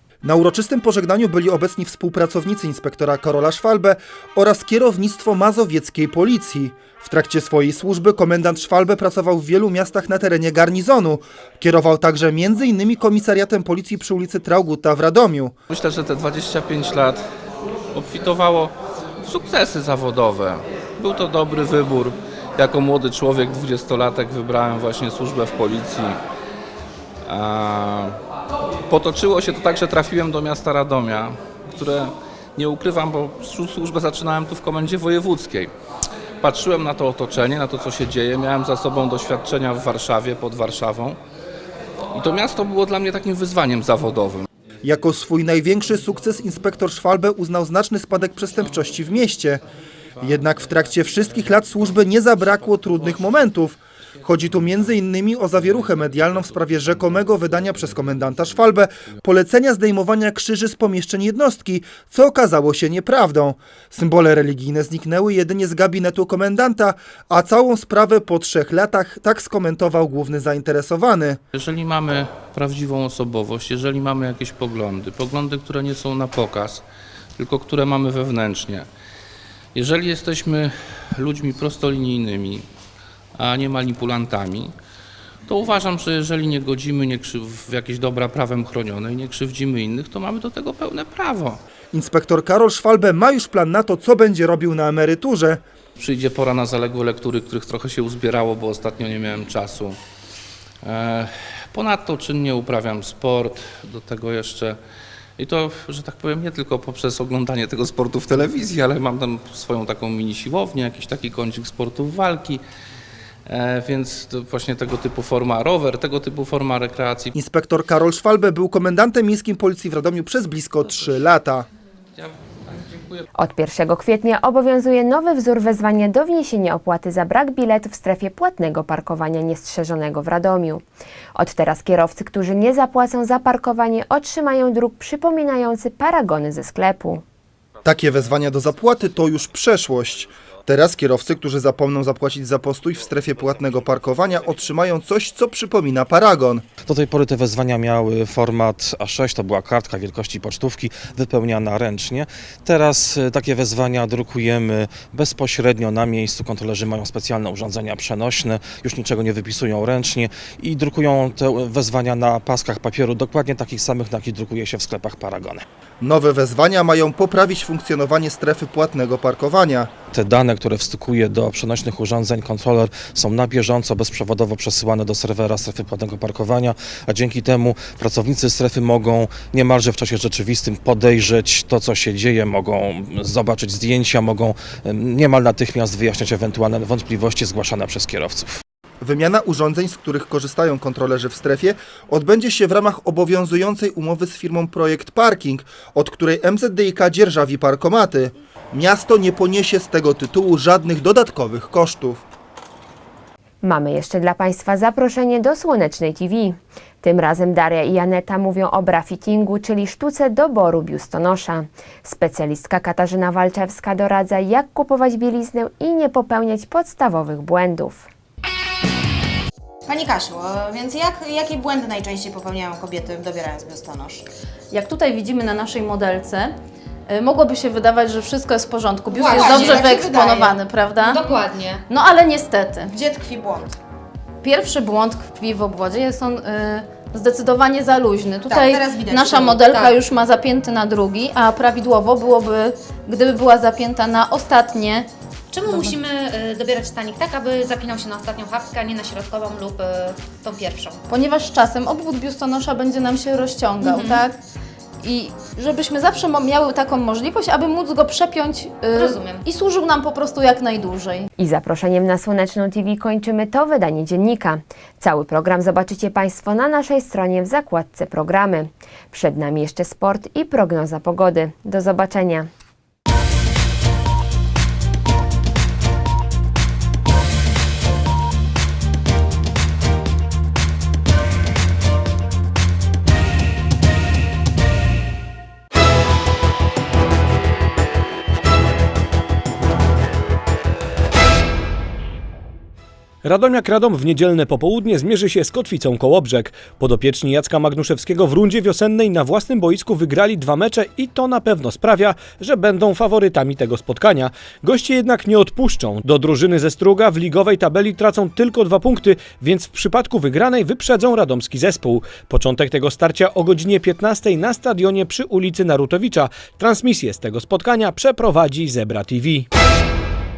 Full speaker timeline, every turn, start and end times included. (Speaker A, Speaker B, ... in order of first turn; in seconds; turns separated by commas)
Speaker A: 0.2-15.5, Speaker B: 15.7-17.2, Speaker B: 17.9-18.7, Speaker B: 19.2-26.2, Speaker B: 27.3-28.2, Speaker B: 28.9-35.7, Speaker B: 36.4-41.2, Speaker B: 42.1-44.5, Speaker A: 44.8-49.6, Speaker A: 50.2-71.4, Speaker B: 71.5-76.8, Speaker B: 77.4-78.9, Speaker B: 79.7-82.6, Speaker B: 83.4-84.7, Speaker B: 85.5-91.6, Speaker A: 91.9-95.6, Speaker B: 96.0-99.9, Speaker B: 100.8-104.8, Speaker B: 105.4-112.6, Speaker B: 113.5-117.3, Speaker A: 117.3-121.7, Speaker B: 122.2-123.2, Speaker C: 123.4-130.8, Speaker C: 131.3-137.2, Speaker A: 137.8-146.7, Speaker D: 146.8-165.6, Speaker A: 166.0-169.9, Speaker D: 170.1-188.6, Speaker A: 189.0-202.2, Speaker C: 203.6-218.1, Speaker E: 219.9-224.2, Speaker F: 224.7-226.6, Speaker F: 227.1-231.3, Speaker G: 229.2-229.8, Speaker E: 229.3-230.5, Speaker G: 231.1-231.8, Speaker F: 231.8-232.9, Speaker E: 232.9-233.7, Speaker F: 234.4-245.1, Speaker E: 238.5-239.5, Speaker G: 245.5-251.0, Speaker F: 245.7-246.0, Speaker F: 251.1-254.4, Speaker F: 255.0-261.3, Speaker G: 259.0-259.4, Speaker C: 261.4-272.5, Speaker H: 293.2-319.5